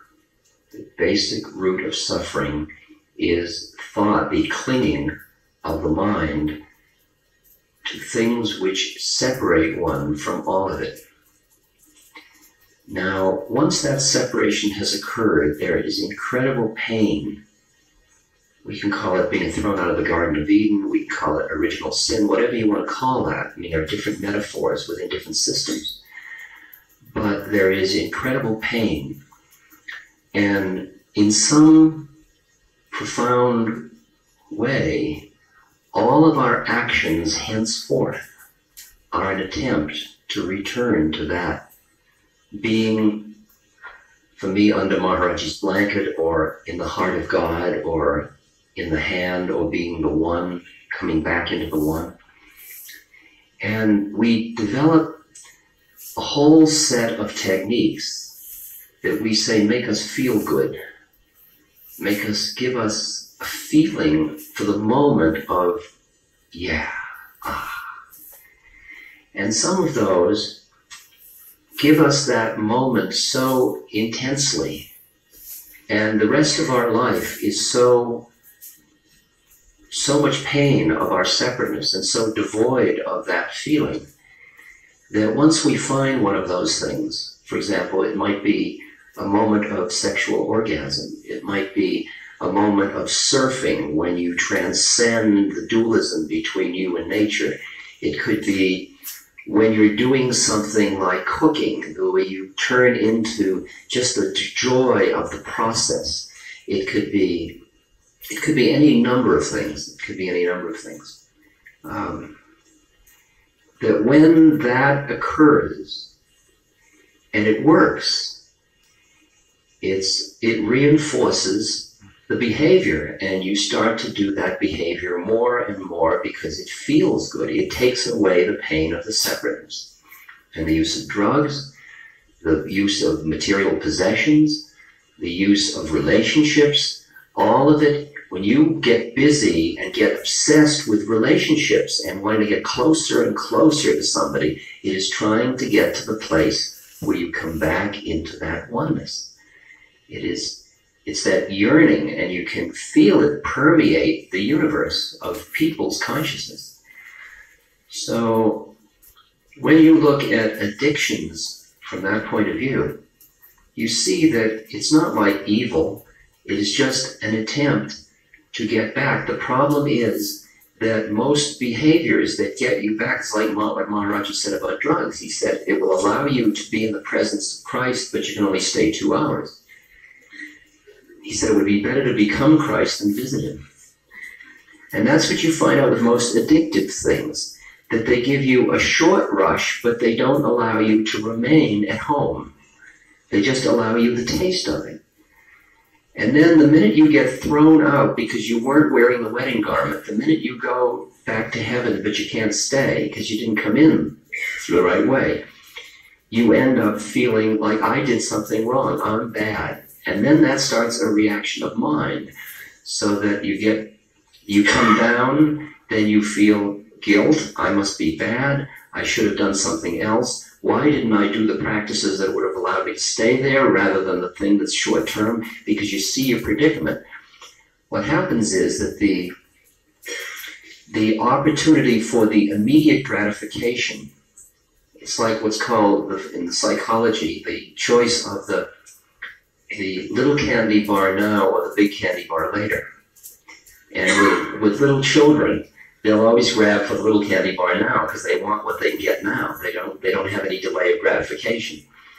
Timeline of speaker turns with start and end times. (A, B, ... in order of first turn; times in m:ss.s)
0:00.7-0:06.6 A
0:07.8-0:11.0 A
0:12.9-0:17.4 A
0:18.6-0:26.0 A
0:27.1-0:29.2 A
0:30.3-0:32.1 A
0:32.9-0:34.0 A
0:34.5-0:35.3 A
0:35.9-0:38.2 A
0:39.1-0:41.6 A
0:42.6-0:43.4 A
0:44.4-0:52.1 A
0:53.6-0:55.2 A
0:56.2-0:58.3 A
0:59.0-1:00.8 A
1:02.0-1:05.9 A
1:06.5-1:06.9 A
1:07.4-1:07.8 A
1:09.3-1:10.6 A
1:11.8-1:14.9 A
1:15.9-1:18.3 A
1:19.9-1:24.1 A
1:25.1-1:38.9 A
1:39.4-1:47.6 A
1:48.3-1:51.2 A
1:51.8-1:52.3 A
1:53.8-1:56.1 A
1:57.3-1:58.4 A
1:59.8-2:09.9 A
2:10.5-2:11.7 A
2:12.4-2:14.6 A
2:15.2-2:29.3 A
2:30.1-2:36.8 A
2:37.9-2:38.8 A
2:39.6-2:43.0 A
2:43.8-2:48.0 A
2:48.5-2:59.6 A
3:01.2-3:03.6 A
3:04.9-3:12.5 A
3:13.3-3:15.0 A
3:16.2-3:25.4 A
3:26.3-3:32.3 A
3:32.8-3:33.9 A
3:34.5-3:47.0 A
3:47.9-3:49.3 A
3:50.9-3:54.1 A
3:55.0-3:58.7 A
3:59.7-4:02.8 A
4:03.9-4:11.8 A